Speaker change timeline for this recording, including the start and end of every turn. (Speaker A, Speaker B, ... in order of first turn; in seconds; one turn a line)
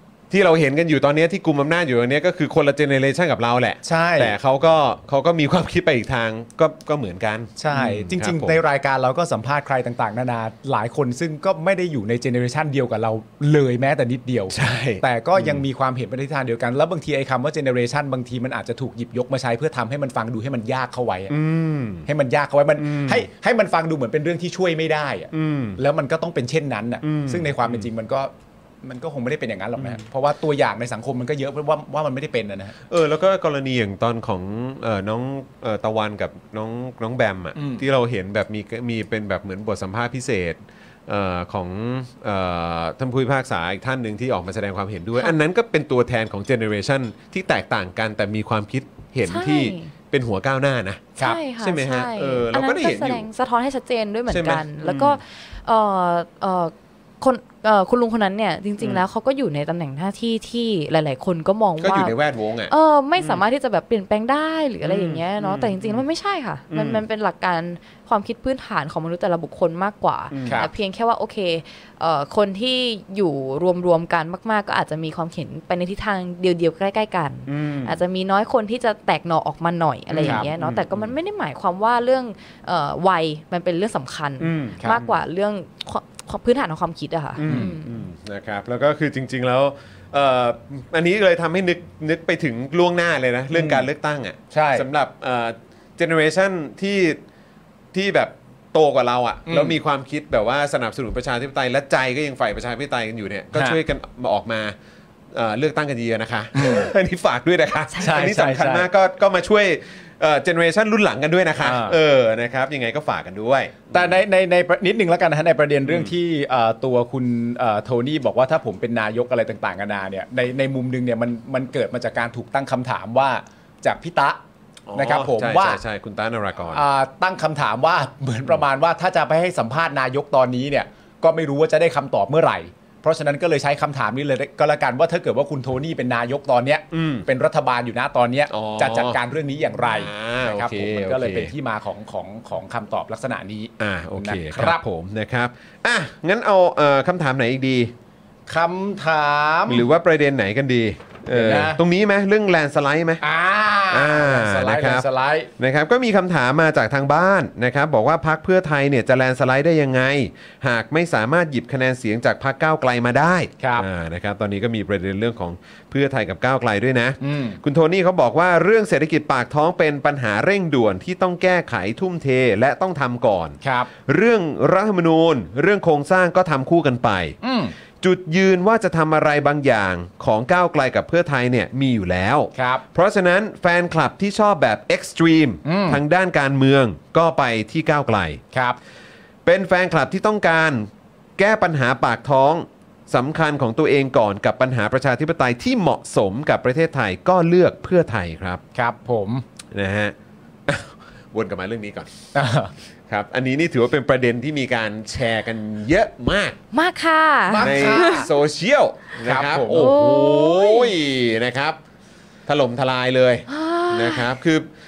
Speaker A: 0.3-8.6
Speaker B: 3.8-4.3
Speaker B: 7.6-21.3
Speaker A: 14.5-15.6
Speaker A: 21.3-22.1
Speaker B: 22.1-32.7
Speaker A: 22.8-23.2
Speaker A: 25.3-25.8
Speaker A: 27.0-27.9
Speaker A: 32.9-53.2
Speaker B: 37.5-37.8
Speaker C: 49.2-49.9
Speaker C: 51.2-62.1
Speaker A: 54.3-55.2
Speaker A: 61.8-63.4
Speaker C: 62.7-88.0
Speaker A: 64.8-66.0
Speaker A: 66.7-67.0
Speaker A: 70.3-70.7
Speaker A: 77.5-78.0
Speaker A: 80.1-81.1
Speaker B: 80.2-80.5
Speaker A: 84.4-85.2
Speaker A: 87.3-97.2
Speaker B: 87.5-87.7
Speaker B: 93.5-93.9
Speaker B: 94.5-94.9
Speaker A: 97.9-104.7
Speaker B: 99.5-99.8
Speaker A: 105.3-114.1
Speaker B: 106.5-106.9
Speaker B: 108.0-108.9
Speaker B: 111.6-112.0
Speaker B: 113.9-124.4
Speaker A: 124.9-126.8
Speaker B: 124.9-125.8
Speaker B: 126.7-144.8
Speaker A: 136.9-137.2
Speaker A: 138.5-139.2
Speaker A: 139.9-141.5
Speaker A: 143.8-147.9
Speaker B: 148.5-149.8
Speaker A: 149.7-153.2
Speaker B: 151.3-151.8
Speaker B: 153.2-155.5
Speaker A: 153.9-155.1
Speaker A: 155.6-177.3
Speaker B: 163.6-163.8
Speaker B: 167.2-167.6
Speaker B: 173.6-173.9
Speaker B: 177.4-177.7
Speaker A: 178.0-188.4
Speaker B: 182.5-182.8
Speaker B: 185.6-186.0
Speaker B: 188.5-188.8
Speaker A: 189.4-198.6
Speaker B: 198.7-199.4
Speaker A: 199.7-200.1
Speaker A: 200.7-202.2
Speaker B: 202.3-202.7
Speaker A: 203.1-206.6
Speaker C: 206.7-208.3
Speaker B: 207.5-208.3
Speaker A: 207.6-211.8
Speaker B: 209.2-209.9
Speaker C: 209.7-210.9
Speaker A: 212.5-214.7
Speaker C: 213.5-214.3